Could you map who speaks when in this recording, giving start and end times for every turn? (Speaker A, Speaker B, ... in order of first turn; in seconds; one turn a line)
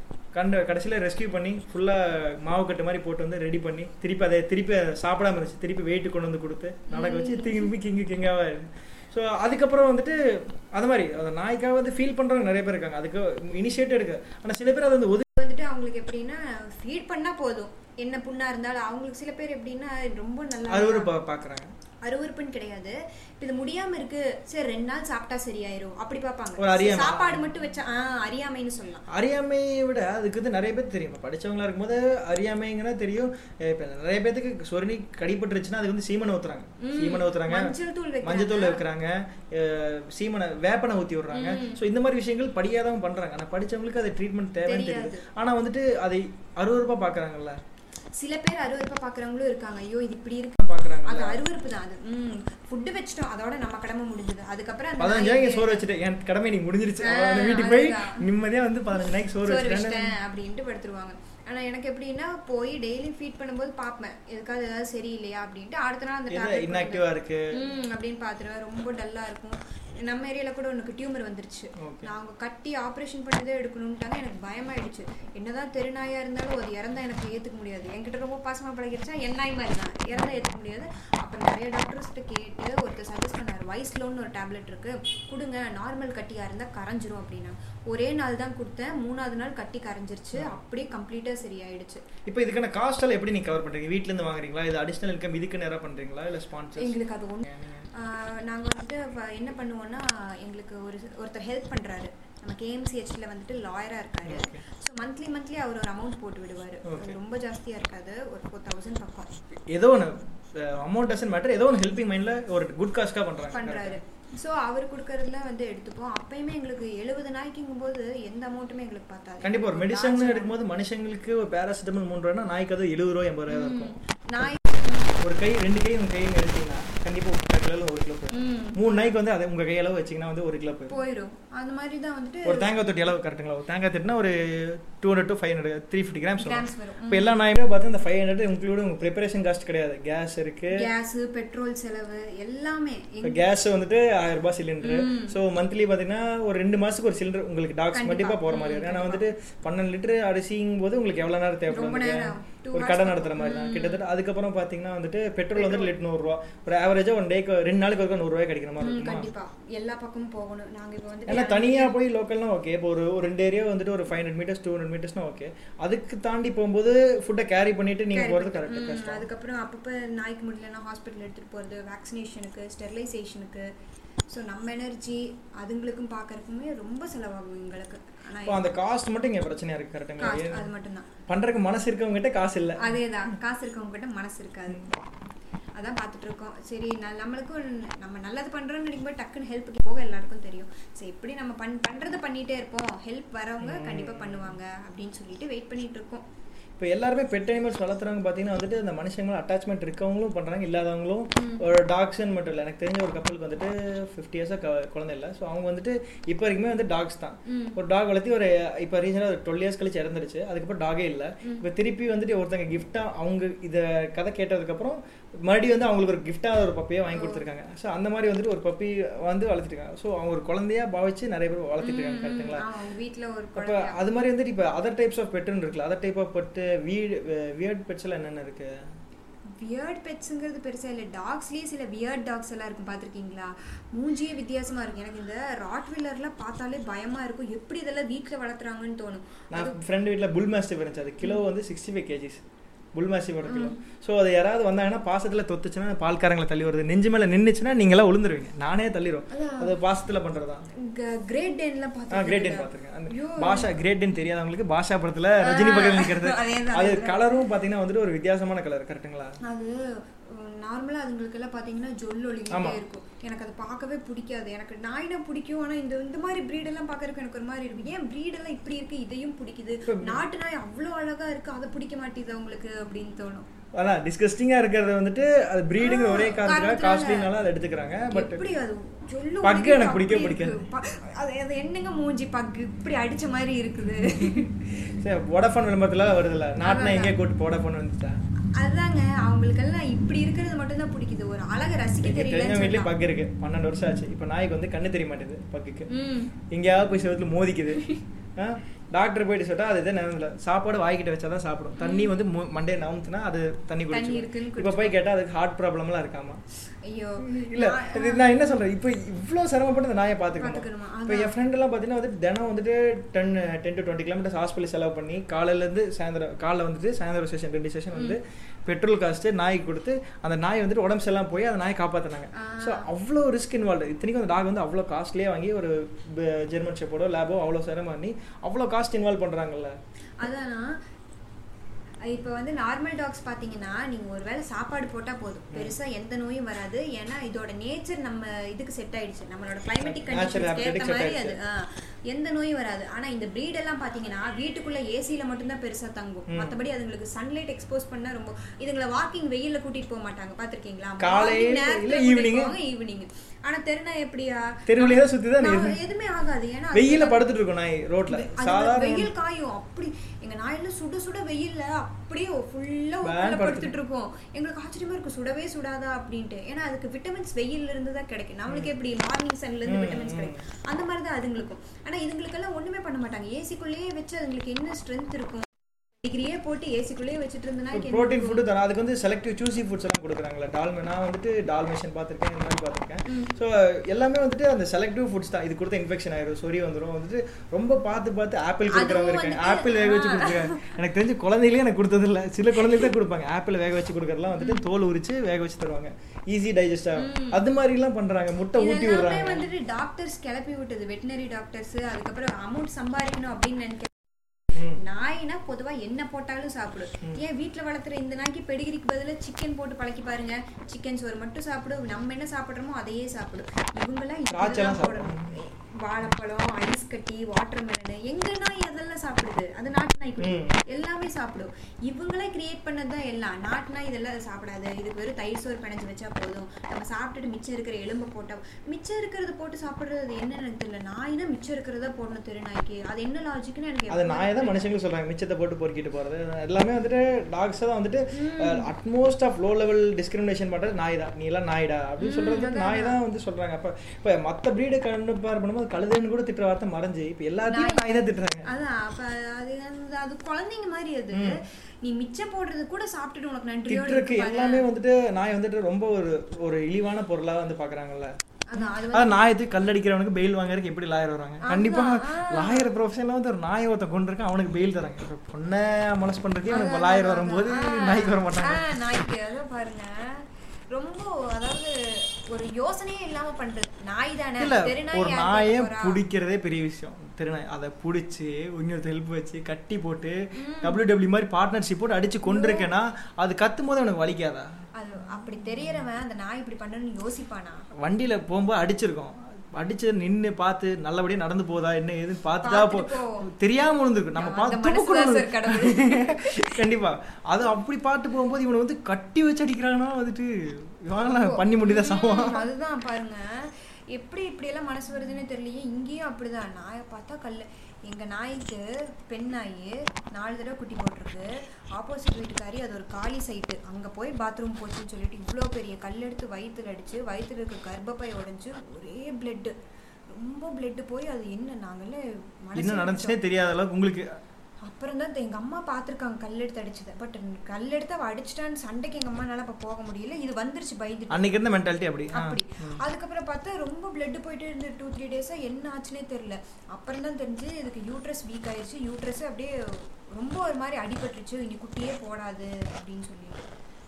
Speaker A: 0.3-15.3
Speaker B: 6.9-7.7
Speaker B: 15.3-21.1
Speaker A: 20.7-21.7
Speaker B: 22.0-29.1
Speaker A: 26.6-27.4
Speaker A: 29.1-47.6
Speaker B: 36.8-38.8
Speaker B: 41.3-41.8
Speaker B: 44.6-45.3
Speaker B: 48.1-55.9
Speaker A: 50.6-51.4
Speaker A: 55.0-60.1
Speaker B: 57.0-58.2
Speaker B: 59.4-92.0
Speaker A: 66.3-67.6
Speaker A: 71.8-72.1
Speaker A: 90.3-90.6
Speaker A: 92.2-97.9
Speaker B: 96.8-109.3
Speaker A: 104.2-104.6
Speaker A: 106.8-107.2
Speaker A: 109.7-114.0
Speaker B: 113.5-120.5
Speaker A: 119.4-124.6
Speaker B: 123.5-125.2
Speaker A: 125.2-130.9
Speaker B: 128.3-129.0
Speaker B: 130.9-132.7
Speaker A: 132.4-140.8
Speaker B: 136.4-137.4
Speaker B: 140.7-143.5
Speaker A: 143.2-159.3
Speaker B: 144.8-145.4
Speaker B: 147.9-149.2
Speaker B: 151.7-154.0
Speaker B: 155.5-155.9
Speaker B: 158.8-162.0
Speaker A: 161.3-169.2
Speaker B: 168.1-173.7
Speaker B: 174.3-178.7
Speaker A: 178.4-180.7
Speaker B: 180.2-181.1
Speaker A: 181.3-183.0
Speaker B: 182.8-184.9
Speaker B: 185.8-196.2
Speaker A: 193.6-194.5
Speaker A: 196.8-222.7
Speaker B: 201.3-201.6
Speaker B: 207.5-207.8
Speaker B: 217.1-217.4
Speaker B: 221.8-224.0
Speaker A: 223.6-228.7
Speaker B: 229.5-239.8
Speaker A: 239.5-242.4
Speaker A: 242.9-250.7
Speaker B: 243.5-243.8
Speaker B: 249.3-249.8
Speaker B: 250.8-253.7
Speaker A: 252.1-259.4
Speaker B: 255.4-257.4
Speaker B: 259.4-273.5
Speaker A: 262.5-262.8
Speaker A: 269.9-270.2
Speaker A: 273.8-278.4
Speaker B: 275.8-277.3
Speaker B: 278.1-284.5
Speaker A: 279.4-280.6
Speaker A: 285.0-288.2
Speaker B: 286.6-287.1
Speaker B: 288.6-292.9
Speaker A: 292.0-295.9
Speaker B: 295.9-296.3
Speaker A: 296.5-306.4
Speaker B: 301.8-302.1
Speaker B: 303.9-305.0
Speaker B: 306.8-308.6
Speaker A: 307.2-329.8
Speaker B: 310.4-311.4
Speaker B: 322.3-322.9
Speaker B: 330.2-330.8
Speaker B: 332.0-357.2
Speaker A: 339.8-341.4
Speaker A: 346.3-346.6
Speaker A: 351.0-352.5
Speaker A: 354.7-355.8
Speaker A: 356.7-359.1
Speaker B: 358.1-378.4
Speaker A: 363.0-363.7
Speaker A: 369.6-370.4
Speaker A: 377.7-399.5
Speaker B: 383.1-383.4
Speaker B: 388.7-390.7
Speaker B: 392.5-392.9
Speaker B: 394.4-394.6
Speaker B: 397.0-397.4
Speaker B: 398.5-434.7
Speaker A: 414.3-415.3
Speaker A: 420.2-420.6
Speaker A: 433.9-448.5
Speaker B: 438.1-438.7
Speaker B: 442.0-443.0
Speaker B: 447.5-454.7
Speaker A: 451.1-451.4
Speaker A: 453.7-468.7
Speaker B: 458.5-459.3
Speaker B: 461.4-462.7
Speaker B: 466.5-476.0
Speaker A: 474.4-484.5
Speaker B: 480.4-480.8
Speaker B: 482.2-482.7
Speaker B: 484.8-487.6
Speaker A: 487.8-502.4
Speaker B: 492.4-493.2
Speaker B: 494.2-496.5
Speaker B: 501.0-519.5
Speaker B: 520.1-523.2
Speaker A: 522.6-524.1
Speaker B: 524.6-531.4
Speaker A: 531.1-532.8
Speaker B: 532.1-543.4